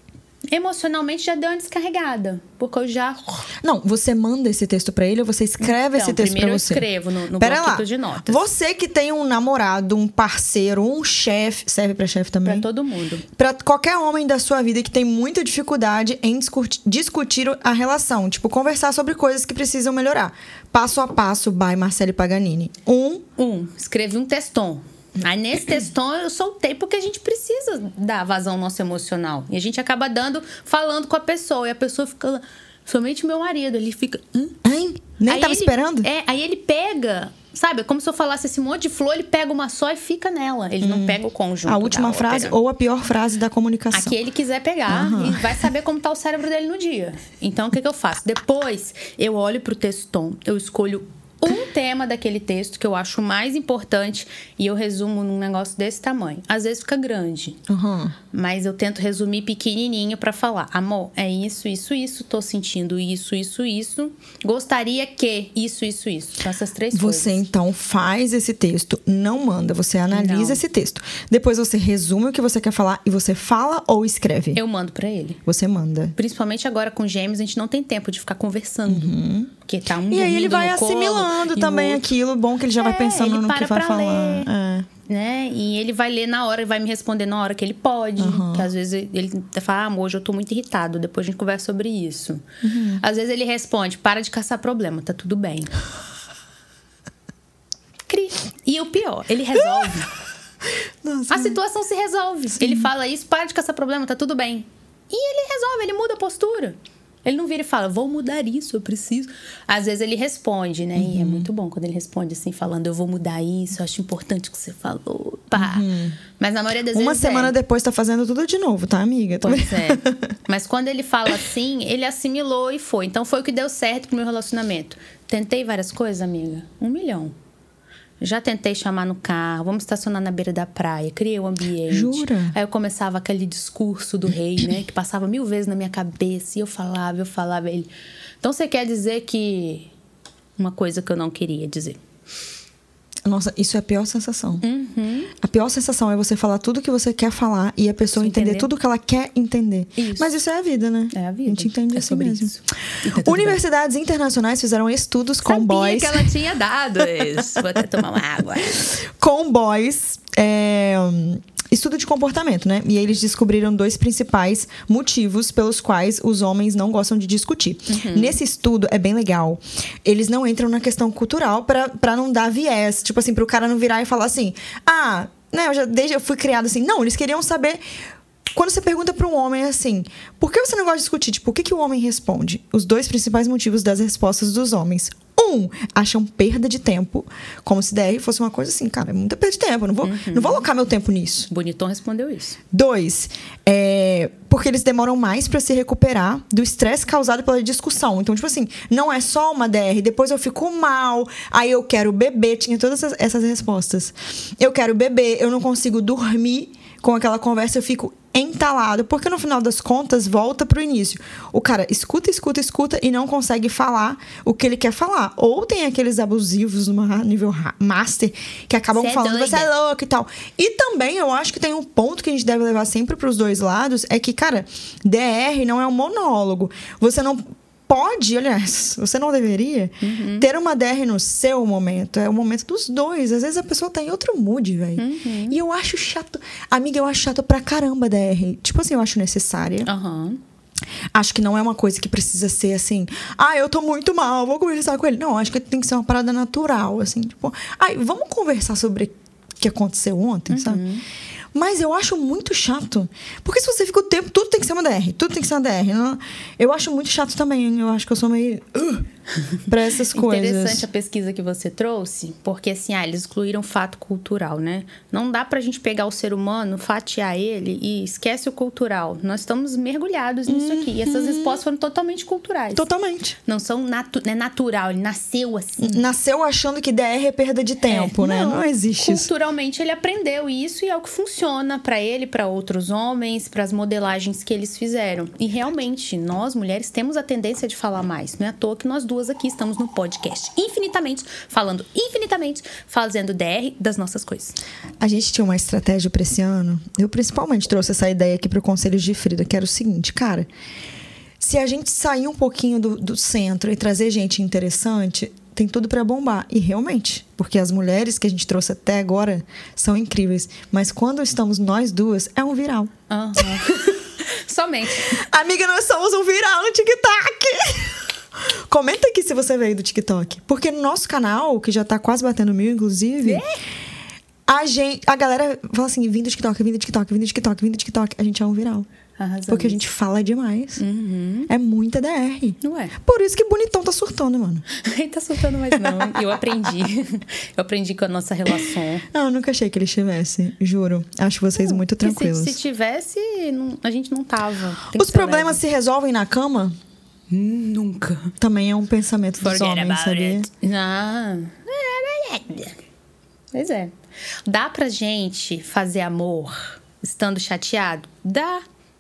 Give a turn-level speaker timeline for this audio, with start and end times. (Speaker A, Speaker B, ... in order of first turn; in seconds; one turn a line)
Speaker A: 0.5-3.5
Speaker B: 3.6-6.8
Speaker A: 5.6-8.4
Speaker B: 7.4-12.7
Speaker A: 12.4-13.2
Speaker B: 13.4-23.2
Speaker A: 23.4-34.6
Speaker B: 34.6-36.1
Speaker A: 35.3-42.6
Speaker B: 40.8-44.1
Speaker A: 43.9-57.6
Speaker B: 44.9-45.6
Speaker B: 57.7-58.2
Speaker A: 58.3-67.4
Speaker B: 66.9-74.6
Speaker A: 70.1-70.6
Speaker A: 74.5-75.4
Speaker B: 75.5-76.2
Speaker A: 76.2-82.1
Speaker B: 78.9-79.5
Speaker B: 80.1-84.9
Speaker A: 82.8-84.5
Speaker A: 85.0-92.4
Speaker B: 88.2-88.7
Speaker B: 92.6-93.0
Speaker A: 93.0-95.7
Speaker A: 98.1-100.1
Speaker B: 99.6-100.0
Speaker B: 101.0-101.6
Speaker A: 101.3-117.5
Speaker B: 102.5-102.9
Speaker B: 111.0-111.5
Speaker B: 115.5-116.2
Speaker B: 116.9-120.4
Speaker A: 119.4-127.3
Speaker A: 128.2-137.9
Speaker B: 131.9-132.6
Speaker A: 138.4-139.9
Speaker A: 140.6-142.0
Speaker B: 143.2-144.6
Speaker A: 144.6-145.3
Speaker B: 145.4-156.3
Speaker A: 148.1-148.7
Speaker A: 150.0-150.4
Speaker A: 151.1-153.6
Speaker A: 155.4-158.8
Speaker B: 158.8-177.8
Speaker A: 167.9-168.4
Speaker B: 178.5-191.5
Speaker A: 190.0-190.7
Speaker A: 191.5-192.6
Speaker B: 192.7-239.9
Speaker A: 218.9-219.7
Speaker A: 230.0-230.5
Speaker A: 235.0-235.6
Speaker A: 239.9-240.4
Speaker B: 241.1-250.8
Speaker A: 250.5-251.0
Speaker B: 251.5-259.1
Speaker B: 259.6-260.9
Speaker A: 260.1-272.9
Speaker B: 270.5-271.6
Speaker B: 272.8-273.4
Speaker A: 273.5-276.0
Speaker B: 275.8-279.3
Speaker A: 277.9-294.6
Speaker B: 295.0-300.5
Speaker B: 301.4-313.4
Speaker A: 313.1-315.2
Speaker B: 315.1-318.0
Speaker B: 318.7-323.4
Speaker A: 323.2-323.6
Speaker B: 324.5-328.9
Speaker A: 329.2-329.8
Speaker B: 329.5-330.8
Speaker A: 330.8-331.5
Speaker B: 331.5-334.6
Speaker A: 332.6-332.9
Speaker A: 334.7-339.1
Speaker B: 335.7-336.4
Speaker B: 339.1-342.6
Speaker A: 341.6-345.6
Speaker B: 344.9-346.8
Speaker A: 347.3-348.4
Speaker B: 348.4-350.5
Speaker A: 349.4-352.8
Speaker A: 353.5-353.9
Speaker A: 354.4-358.6